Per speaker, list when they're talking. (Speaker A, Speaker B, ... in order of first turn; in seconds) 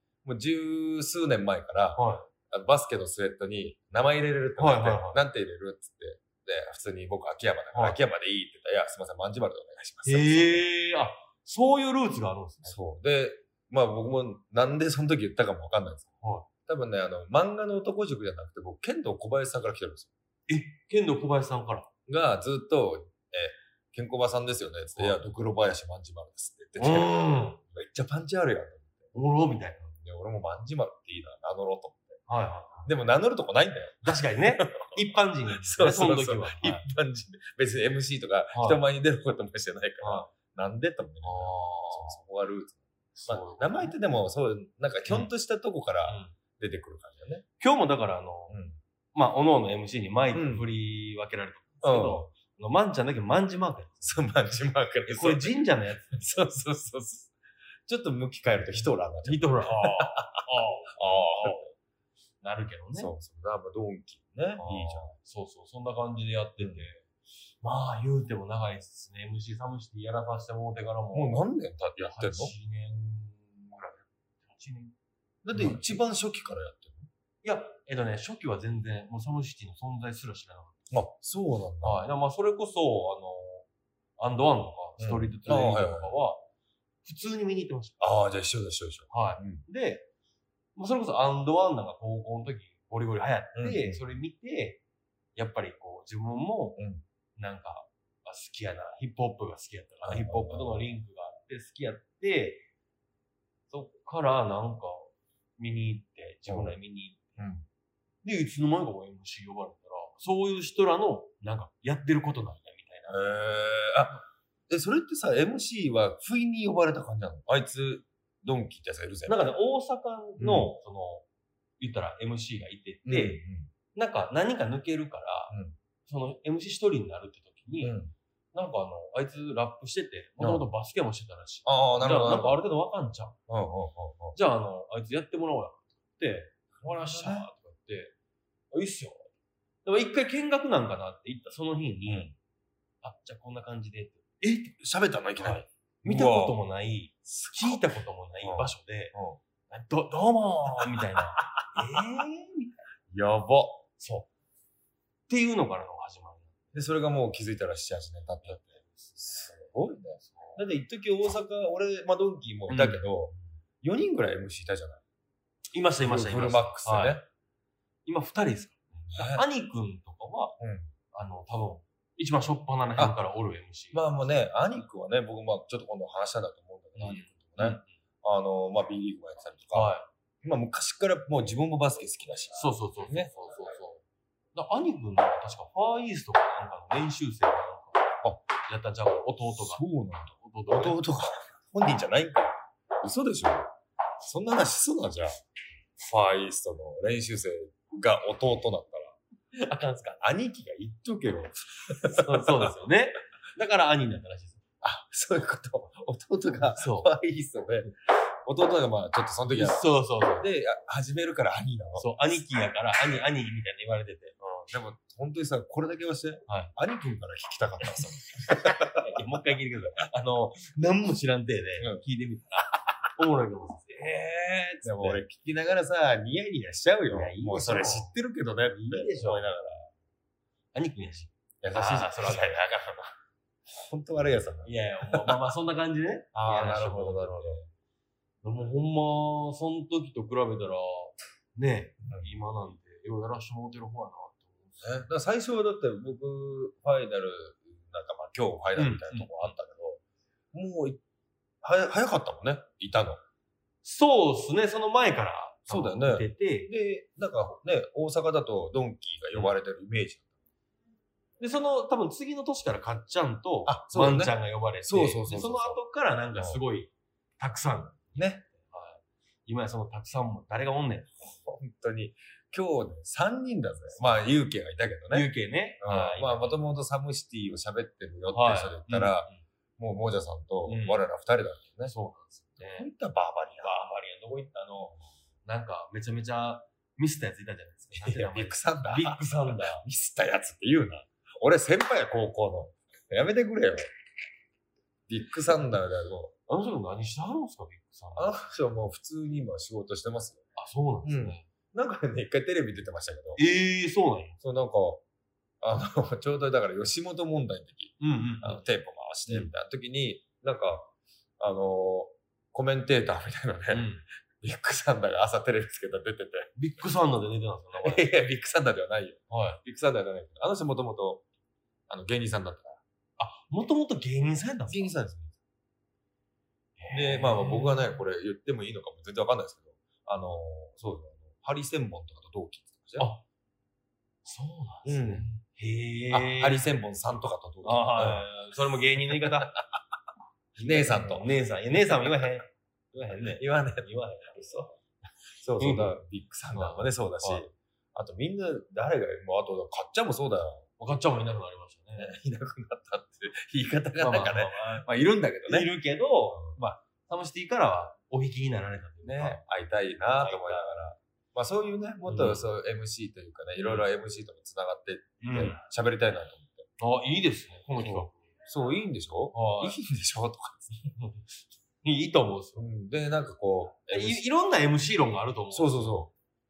Speaker A: 0.2-10.6, 12.7-16.1, 16.7-20.1, 22.1-29.0, 29.9-32.2, 32.9-47.5, 48.5-48.8, 50.3-50.6, 51.8-52.3, 54.0-55.5, 56.2-57.3, 57.9-61.7, 63.0-65.1, 66.6-66.9, 71.1-72.5, 75.5-77.1, 80.9-82.0, 85.0-86.1, 88.0-89.6, 93.5-94.0, 96.8-97.0, 100.1-100.8, 106.5-106.8, 107.4-107.7, 113.1-119.4, 120.4-120.7, 123.1-123.7, 125.5-125.8, 127.8-128.1, 130.4-130.7, 131.7-132.6, 133.5-134.4, 136.8-137.5, 142.1-142.3, 144.4-146.6, 147.3-147.8, 148.4-149.4, 151.8-152.2, 153.1-153.8, 156.7-165.0, 166.0-167.2, 169.1-169.4, 170.6-170.9, 173.9-183.3, 189.6-193.7, 194.2-195.4, 196.0-199.2, 200.2-202.7, 204.8-207.9, 208.4-209.8, 210.4-212.4, 214.6-219.2, 224.8-229.9, 231.6-233.2, 233.7-235.4, 236.3-237.6, 244.8-250.0, 250.5-251.0, 251.6-253.2, 255.7-260.3, 263.7-265.8, 266.4-266.6, 268.2-268.4, 271.2-275.3, 275.8-281.9, 282.6-283.8, 287.9-293.9, 295.1-296.3, 298.2-300.4, 301.0-303.4, 304.4-305.0, 305.6-313.9, 314.4-316.5, 317.8-321.2, 321.9-322.8, 324.7-325.4, 326.9-333.1, 334.9-335.3, 336.1-338.3, 339.2-339.8, 340.6-341.3, 341.9-342.3, 343.2-344.6, 345.4-350.7, 352.0-355.7, 356.4-356.6, 359.1-366.7, 367.8-370.8, 372.6-374.2, 375.5-376.1
Speaker B: 2.0-2.3, 4.6-5.2, 10.1-12.8, 16.2-16.5, 20.5-21.9, 24.9-25.2, 26.8-27.6, 29.1-29.9, 32.3-32.9, 34.0-36.9, 38.5-38.8, 40.0-40.3, 41.2-42.2, 43.1-44.0, 46.1-46.4, 47.6-48.6, 49.1-54.1, 55.1-56.4, 59.2-61.7, 62.4-63.1, 64.6-67.1, 67.6-71.5, 72.0-75.0, 75.5-76.0, 77.4-80.8, 81.8-83.7, 84.2-86.5, 87.0-88.0, 89.1-90.1, 90.8-94.8, 95.4-96.8, 97.4-102.7, 103.7-107.4, 108.2-113.2, 119.3-121.3, 121.8-123.4, 123.9-128.0, 128.5-133.4, 134.3-138.1, 138.7-139.3, 139.8-142.3, 143.0-144.4, 145.4-149.2, 149.7-152.8, 154.0-154.3, 155.3-156.8, 158.4-159.7, 160.2-160.6, 162.7-163.4, 165.7-167.2, 168.1-170.6, 171.1-174.0, 177.0-177.9, 179.7-180.1, 182.5-189.8, 190.4-191.0, 199.5-200.2, 202.0-204.6, 206.7-207.1, 209.5-210.5, 212.0-214.4, 216.5-216.7, 218.5-225.2, 227.1-228.1, 228.7-229.5, 230.7-232.6, 234.6-237.7, 238.4-245.1, 248.8-249.5, 253.8-256.7, 261.4-271.1, 275.1-276.6, 278.3-279.4, 280.6-281.0, 281.9-282.9, 283.6-289.9, 296.5-298.4, 300.6-301.5, 303.4-304.4, 308.0-308.7, 309.3-309.5, 313.7-314.0, 316.6-318.1, 319.3-319.6, 323.2-325.0, 326.8-327.8, 333.0-333.2, 334.2-336.7, 337.6-339.6, 340.6-344.8, 345.6-346.0, 346.5-347.5, 350.8-352.1, 354.0-354.9, 355.5-359.4, 360.1-360.7, 362.1-362.5, 363.6-363.9, 365.2-365.6, 366.8-368.2, 369.3-369.8, 370.9-371.3, 371.8-372.7, 373.9-376.1